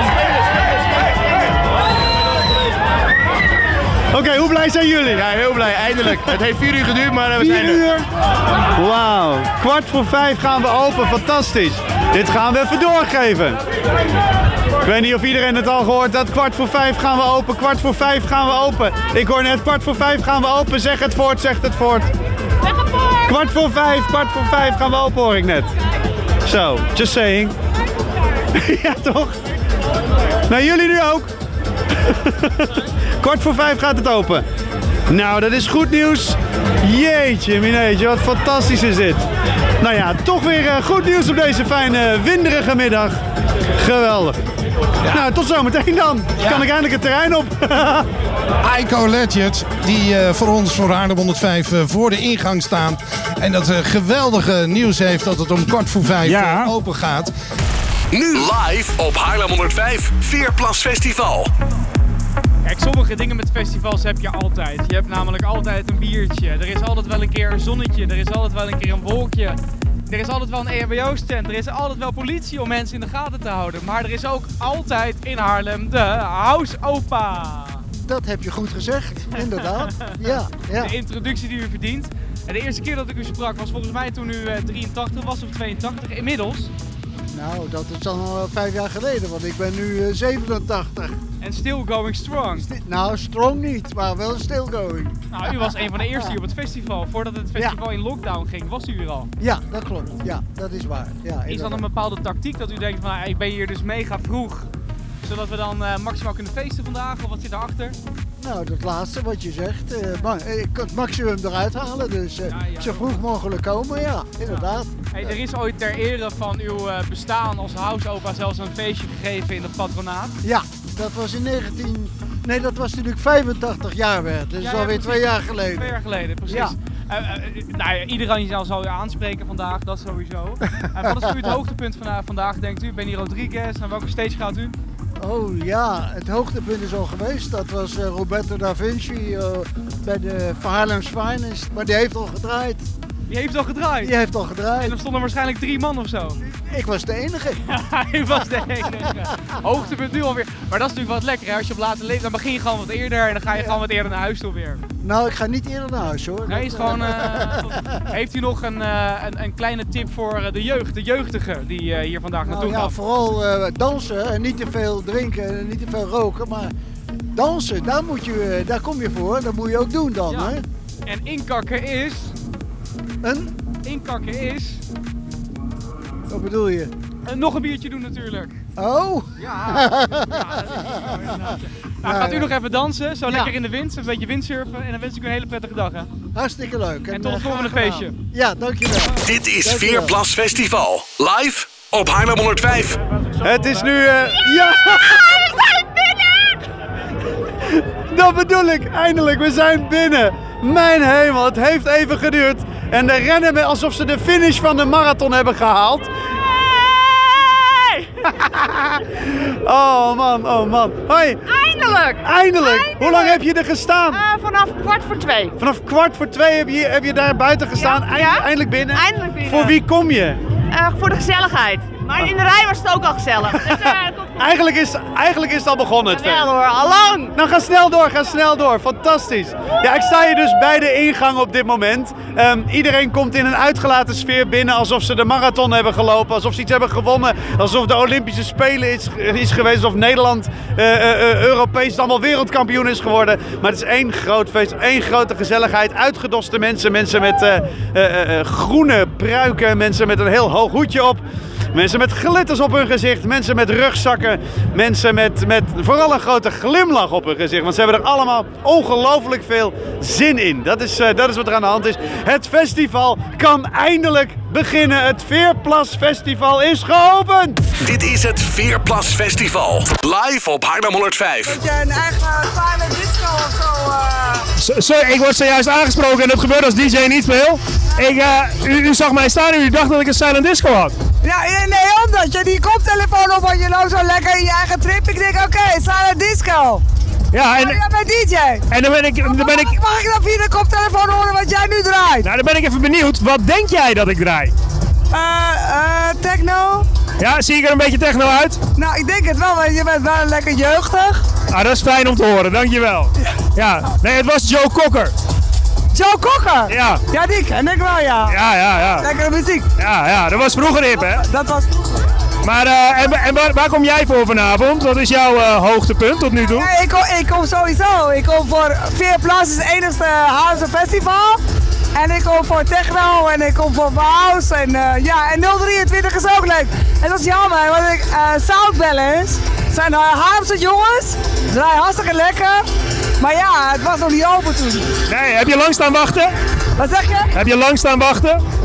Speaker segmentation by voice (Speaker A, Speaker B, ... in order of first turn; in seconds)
Speaker A: 4.1-5.3, 5.9-6.4, 7.3-8.1, 8.7-13.6, 14.8-22.1, 23.2-25.7, 26.4-27.6, 28.5-29.4, 30.5-31.3, 32.0-34.5, 35.1-39.2, 39.8-43.2, 43.7-44.4, 45.1-48.1, 193.4-195.6, 197.7-206.1, 208.2-211.4, 212.2-214.2, 215.6-220.4, 223.5-226.5, 227.3-267.6
Speaker B: 46.4-46.6, 48.6-57.3
Speaker C: 56.2-56.7, 274.6-280.9, 287.3-287.8, 288.7-289.8, 292.2-294.5, 297.2-298.6, 301.5-305.1, 306.7-307.0, 308.3-309.1, 309.8-311.2, 312.4-316.7, 335.1-336.3, 337.3-338.4
Speaker D: 58.1-61.5, 189.2-193.0, 267.8-271.6
Speaker E: 62.6-77.8, 79.8-86.7, 91.4-92.7, 95.3-99.3, 101.5-104.7, 105.2-108.0, 112.5-113.2, 114.5-120.4, 124.6-134.8, 143.3-144.1, 144.8-146.4, 147.7-154.8, 156.5-163.0, 170.3-172.3, 173.8-174.8, 177.2-178.6, 179.4-186.1, 187.1-188.2, 193.4-194.0
Speaker F: 77.9-80.9, 87.3-91.2, 92.5-96.3, 99.4-101.8, 108.4-115.3, 120.4-126.7, 131.0-131.5, 135.2-142.9, 144.0-145.0, 146.4-147.6, 153.5-153.8, 155.0-157.8, 162.4-166.7, 167.3-170.6, 173.2-173.6, 176.3-176.9, 178.8-181.2, 182.0-182.5, 183.2-183.5, 186.3-190.2
Speaker G: 195.9-196.3, 206.4-208.1, 211.5-213.4, 214.1-215.5, 217.8-219.7, 220.7-224.3, 226.1-227.3
Speaker H: 271.4-274.5, 281.2-286.8, 287.5-288.6, 289.2-292.3, 295.1-296.9, 298.8-301.2, 305.9-308.4, 309.0-309.6, 311.0-312.1, 316.5-321.4, 321.9-332.6, 333.2-334.9, 336.8-337.3